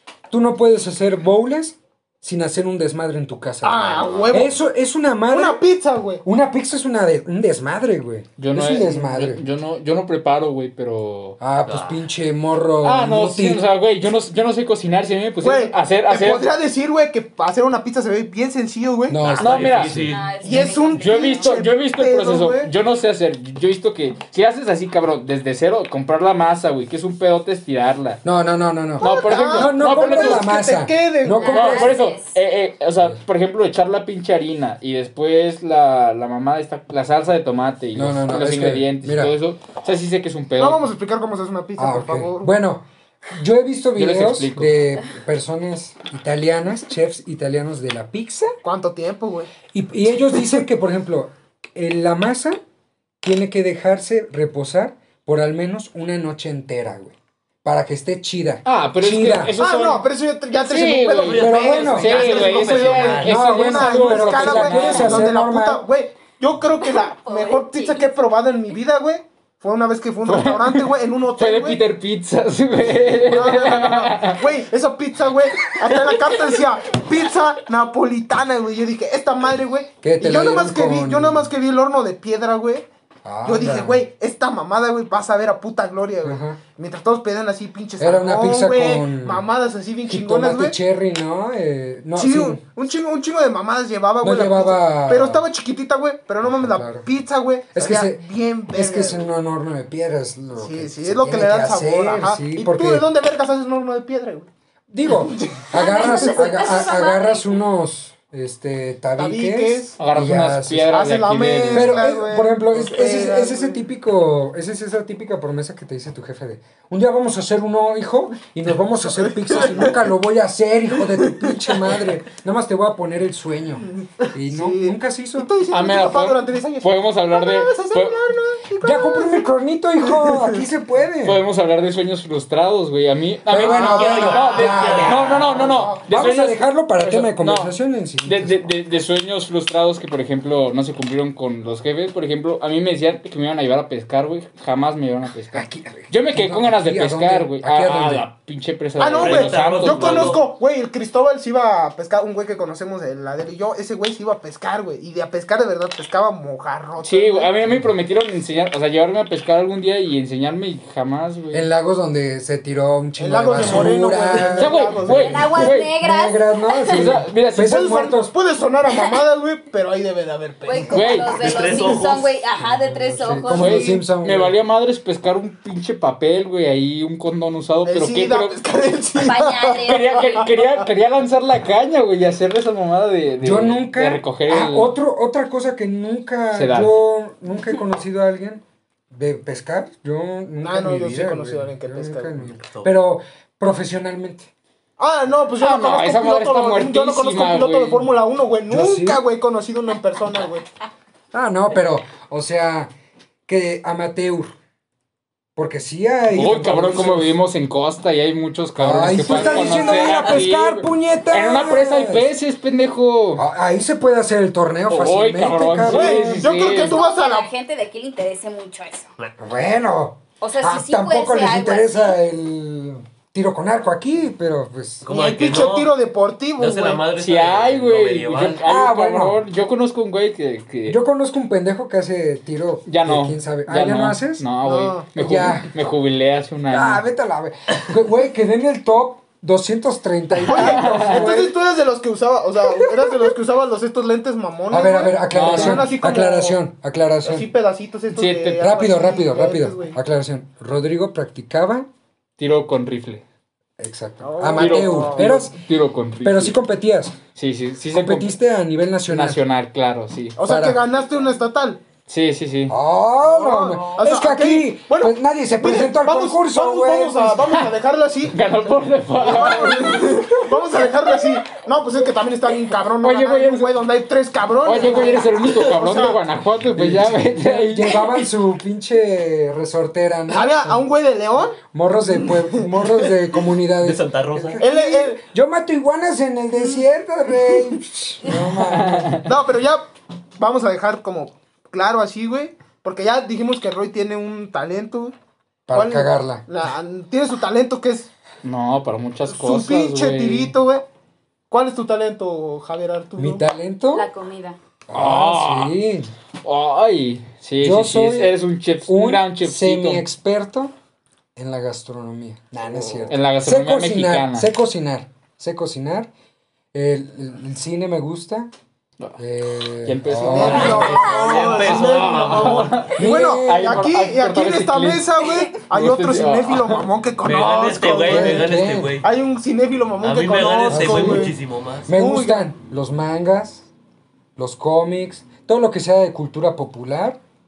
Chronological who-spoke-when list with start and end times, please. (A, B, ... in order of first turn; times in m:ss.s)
0:00.3-0:05.6 A
0:03.6-0:04.6 B
0:05.3-0:06.2 B
0:06.2-0:09.4 A
0:08.4-0:11.4 C
0:11.4-0:13.6 A
0:11.6-0:12.0 D
0:12.8-0:16.5 C
0:15.4-0:19.2 B
0:19.1-0:20.0 A
0:19.2-0:20.4 D
0:19.4-0:28.2 C
0:20.0-0:21.5 E
0:20.4-0:22.7 B
0:28.2-0:32.0 A
0:29.0-0:30.5 C
0:29.0-0:31.8 B
0:31.4-0:32.4 E
0:31.5-0:40.9 C
0:38.0-0:39.3 A
0:40.6-0:42.5 B
0:41.8-0:48.6 A
0:44.0-0:44.8 C
0:48.6-0:49.5 B
0:49.7-0:52.6 A
0:53.2-0:59.6 A
0:58.6-1:00.1 C
0:59.6-1:11.8 B
1:00.6-1:05.3 C
1:01.2-1:03.3 D
1:01.4-1:02.1 A
1:03.2-1:05.8 A
1:06.9-1:08.1 E
1:10.2-1:14.5 C
1:13.2-1:22.9 B
1:15.9-1:16.3 C
1:20.0-1:21.5 A
1:23.2-1:24.0 A
1:23.4-1:30.8 B
1:26.2-1:26.6 A
1:28.0-1:29.4 A
1:30.1-1:32.6 A
1:32.2-1:39.2 B
1:34.2-1:35.4 A
1:36.4-1:37.1 A
1:37.7-1:43.1 A
1:40.6-1:44.5 B
1:44.9-1:51.0 A
1:45.1-1:46.4 B
1:45.7-1:47.6 E
1:49.2-1:50.0 B
1:50.0-1:52.1 C
1:50.9-1:53.8 B
1:51.7-2:05.5 A
1:59.1-2:00.0 B
2:01.1-2:02.0 B
2:04.0-2:09.5 B
2:05.7-2:08.2 C
2:08.8-2:11.4 A
2:10.0-2:10.6 B
2:11.2-2:30.4 C
2:13.5-2:15.5 A
2:13.6-2:15.8 D
2:14.2-2:16.1 B
2:16.1-2:18.6 A
2:25.5-2:28.3 A
2:29.0-2:37.5 B
2:29.1-2:30.4 D
2:37.0-2:41.7 C
2:41.5-2:48.3 A
2:43.2-2:45.5 B
2:44.6-2:45.9 C
2:45.1-2:47.1 E
2:46.9-2:47.9 C
2:47.6-2:52.0 B
2:48.9-2:49.2 E
2:50.6-2:53.9 E
2:50.9-2:51.4 C
2:51.3-2:52.4 D
2:52.9-2:54.6 A
2:53.5-2:58.6 C
2:53.5-2:53.9 B
2:57.8-3:00.8 B
2:59.2-3:00.5 E
2:59.8-3:04.9 C
3:03.4-3:14.5 A
3:06.5-3:06.9 C
3:10.6-3:12.4 B
3:12.4-3:12.9 D
3:15.0-3:20.7 B
3:15.6-3:18.1 C
3:18.7-3:19.2 A
3:21.3-3:22.9 A
3:23.5-3:24.6 A
3:25.6-3:27.4 A
3:26.3-3:33.4 C
3:28.8-3:32.3 A
3:29.3-3:30.1 B
3:33.4-3:36.5 A
3:34.9-3:37.0 C
3:35.8-3:37.5 B
3:36.5-3:39.1 E
3:39.4-3:45.1 A
3:40.4-3:42.2 E
3:45.0-3:45.9 D
3:45.1-3:47.1 B
3:46.6-3:48.6 D
3:47.2-3:51.0 C
3:48.6-3:49.4 A
3:50.9-3:54.4 A
3:52.9-3:57.0 C
3:54.6-3:55.1 B
3:55.2-3:55.7 A
3:56.7-4:01.5 A
4:00.4-4:06.6 B
4:00.5-4:01.3 C
4:02.8-4:03.3 A
4:04.7-4:07.5 A
4:05.3-4:06.0 C
4:07.2-4:10.0 B
4:08.1-4:08.7 C
4:08.6-4:11.9 A
4:12.4-4:13.2 C
4:13.8-4:15.6 A
4:14.2-4:15.3 B
4:14.5-4:16.6 C
4:16.2-4:17.2 A
4:17.4-4:18.3 C
4:17.9-4:19.4 A
4:19.1-4:20.4 C
4:20.4-4:21.8 B
4:20.4-4:20.8 A
4:22.1-4:22.8 C
4:22.7-4:27.4 A
4:23.2-4:28.4 B
4:28.3-4:30.3 C
4:29.2-4:36.2 B
4:33.0-4:33.7 C
4:34.6-4:37.9 C
4:36.8-4:40.8 A
4:40.3-4:43.1 B
4:41.6-4:49.2 A
4:43.8-4:44.6 D
4:44.6-4:45.2 B
4:46.6-4:47.8 B
4:48.6-4:49.3 C
4:49.2-4:55.2 B
4:55.7-4:56.4 A
4:55.7-4:58.1 B
4:58.4-5:00.5 C
4:59.3-5:00.8 B
5:01.5-5:03.5 B
5:03.2-5:04.1 A
5:03.9-5:04.6 E
5:04.9-5:06.1 A
5:04.9-5:05.8 C
5:06.4-5:10.0 C
5:07.6-5:08.4 A
5:08.9-5:10.7 A
5:11.4-5:16.1 A
5:13.1-5:14.5 C
5:16.7-5:18.5 A
5:19.0-5:26.8 C
5:19.2-5:21.2 A
5:20.2-5:31.4 B
5:20.5-5:22.8 D
5:20.9-5:21.6 E
5:22.9-5:23.9 A
5:27.2-5:29.1 D
5:28.0-5:29.0 A
5:30.0-5:31.9 D
5:30.7-5:33.7 A
5:31.9-5:32.5 B
5:34.4-5:37.2 A